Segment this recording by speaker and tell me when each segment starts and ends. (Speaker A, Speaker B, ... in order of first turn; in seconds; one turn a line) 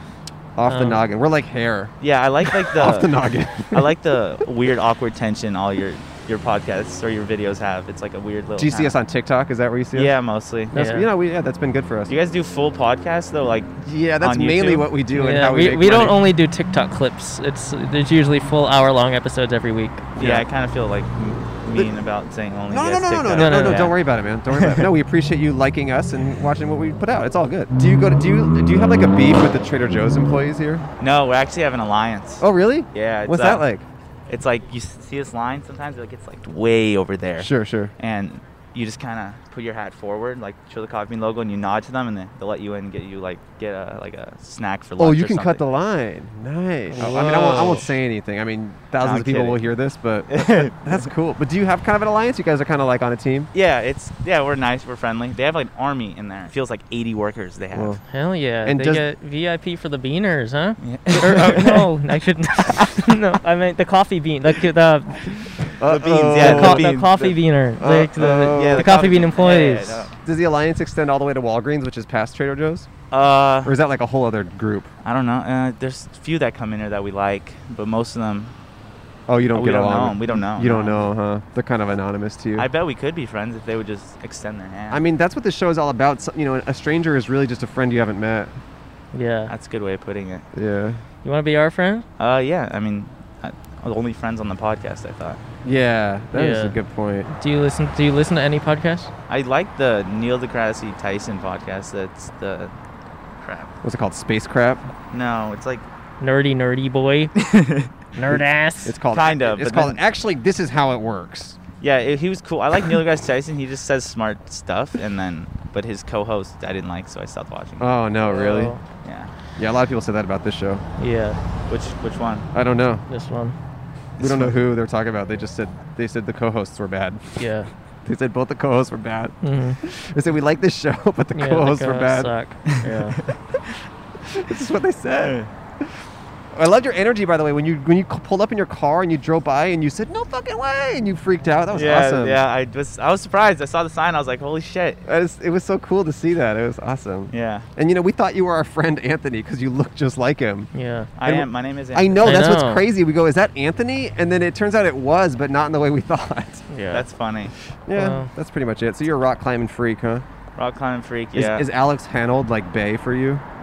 Speaker A: 0.6-3.9
Speaker B: 0.7-1.0
Speaker C: 2.0-3.1
Speaker C: 3.7-9.0
Speaker A: 8.6-10.1
Speaker C: 9.9-10.7
Speaker B: 10.7-11.1
Speaker A: 10.7-12.1
Speaker C: 12.1-14.9
Speaker A: 13.8-16.2
Speaker B: 15.1-20.1
Speaker C: 20.2-24.9
Speaker A: 20.2-20.4
Speaker A: 22.7-30.8
Speaker B: 23.4-23.9
Speaker C: 31.0-33.6
Speaker A: 32.4-33.9
Speaker C: 34.3-45.6
Speaker A: 37.4-37.9
Speaker A: 45.0-53.5
Speaker B: 46.9-47.9
Speaker C: 47.0-47.6
Speaker C: 49.0-49.6
Speaker C: 50.3-51.0
Speaker C: 53.5-58.0
Speaker A: 57.7-58.0
Speaker B: 58.1-65.5
Speaker A: 58.6-59.0
Speaker C: 60.8-61.9
Speaker C: 62.7-63.0
Speaker A: 65.8-67.0
Speaker C: 65.8-67.4
Speaker B: 66.3-70.0
Speaker A: 67.8-69.0
Speaker C: 68.2-70.2
Speaker A: 70.2-72.9
Speaker C: 73.1-73.7
Speaker A: 73.6-74.9
Speaker C: 75.0-78.5
Speaker A: 79.3-82.7
Speaker C: 79.5-81.1
Speaker C: 82.5-85.0
Speaker A: 84.9-88.6
Speaker B: 89.1-89.5
Speaker C: 89.5-90.4
Speaker A: 90.5-91.0
Speaker B: 91.2-92.0
Speaker C: 92.2-95.4
Speaker A: 95.6-97.3
Speaker B: 96.3-96.8
Speaker B: 97.3-99.1
Speaker C: 99.3-102.7
Speaker C: 103.4-103.7
Speaker A: 103.8-104.9
Speaker C: 105.1-105.8
Speaker B: 106.2-107.3
Speaker C: 107.3-107.9
Speaker B: 108.1-109.0
Speaker A: 108.3-111.6
Speaker C: 109.1-110.0
Speaker C: 111.8-117.9
Speaker A: 117.8-118.7
Speaker B: 118.2-118.8
Speaker C: 119.0-119.3
Speaker A: 119.6-120.8
Speaker B: 121.0-121.4
Speaker C: 121.7-122.5
Speaker A: 122.5-123.0
Speaker B: 123.1-123.5
Speaker C: 124.2-124.6
Speaker A: 124.2-127.4
Speaker B: 127.4-127.7
Speaker A: 128.0-132.3
Speaker B: 129.4-129.8
Speaker B: 131.3-133.2
Speaker C: 132.7-133.3
Speaker A: 134.3-135.9
Speaker C: 135.2-135.5
Speaker A: 136.5-142.4
Speaker C: 141.7-145.0
Speaker A: 145.1-150.7
Speaker C: 147.3-147.7
Speaker B: 150.7-151.1
Speaker C: 151.2-152.4
Speaker A: 151.2-156.7
Speaker B: 152.2-152.8
Speaker B: 156.7-157.1
Speaker C: 156.9-157.5
Speaker A: 157.9-160.2
Speaker B: 157.9-158.3
Speaker C: 160.6-161.7
Speaker A: 161.3-163.4